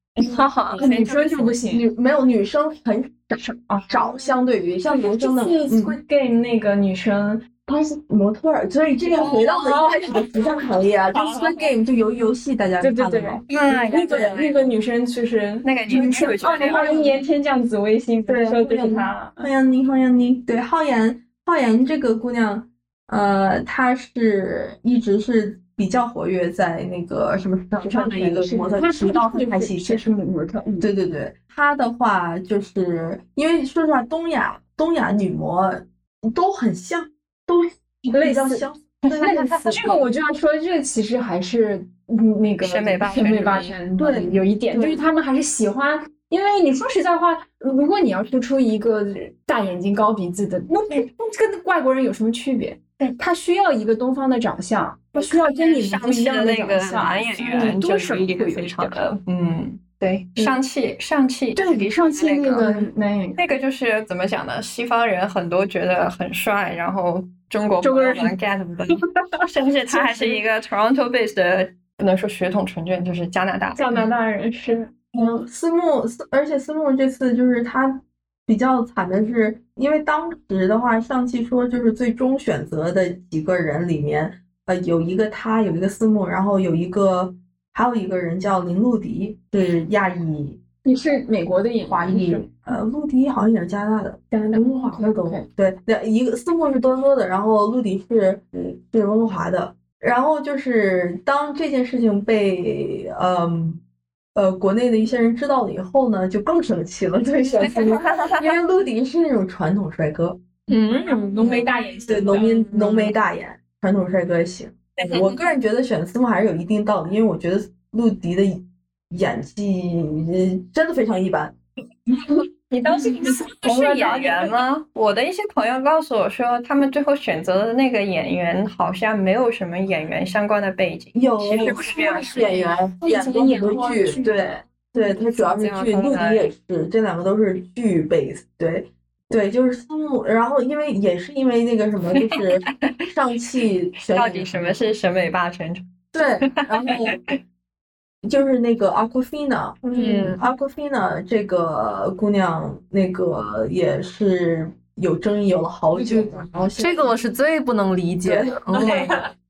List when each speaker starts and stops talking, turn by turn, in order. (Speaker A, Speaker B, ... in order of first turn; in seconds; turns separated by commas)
Speaker A: 0.3-1.6, Speaker B: 0.7-1.0, Speaker C: 0.7-1.8, Speaker B: 1.6-6.0, Speaker C: 3.7-4.3, Speaker C: 4.9-7.9, Speaker B: 7.7-13.6, Speaker C: 9.1-10.5, Speaker C: 11.1-11.7, Speaker C: 12.8-19.5, Speaker A: 13.5-14.7, Speaker A: 15.6-17.2, Speaker B: 15.9-17.1, Speaker B: 18.3-30.1, Speaker C: 27.8-30.9, Speaker B: 30.8-40.1, Speaker C: 38.1-38.6, Speaker A: 39.2-39.8, Speaker C: 39.2-59.0, Speaker A: 42.6-43.8, Speaker B: 44.0-45.1, Speaker A: 55.1-74.1, Speaker C: 61.5-63.4, Speaker C: 67.8-68.3, Speaker C: 69.3-70.4, Speaker C: 73.8-74.9, Speaker B: 75.1-90.6, Speaker C: 90.8-92.8, Speaker B: 91.9-103.8, Speaker C: 94.3-95.5, Speaker B: 104.3-110.4, Speaker C: 107.5-107.9, Speaker A: 107.6-108.5, Speaker C: 110.7-113.1, Speaker A: 111.4-111.7, Speaker B: 111.4-121.6, Speaker A: 115.0-115.3, Speaker A: 122.7-132.6, Speaker C: 122.8-124.6, Speaker B: 131.1-144.9, Speaker C: 131.6-134.6, Speaker A: 135.3-136.5, Speaker A: 142.2-143.1, Speaker A: 144.1-145.8, Speaker B: 146.1-147.2, Speaker A: 146.4-147.4, Speaker B: 148.2-157.1, Speaker C: 149.9-150.4, Speaker C: 155.9-156.7, Speaker D: 156.8-159.1, Speaker B: 158.2-159.0, Speaker C: 158.7-159.3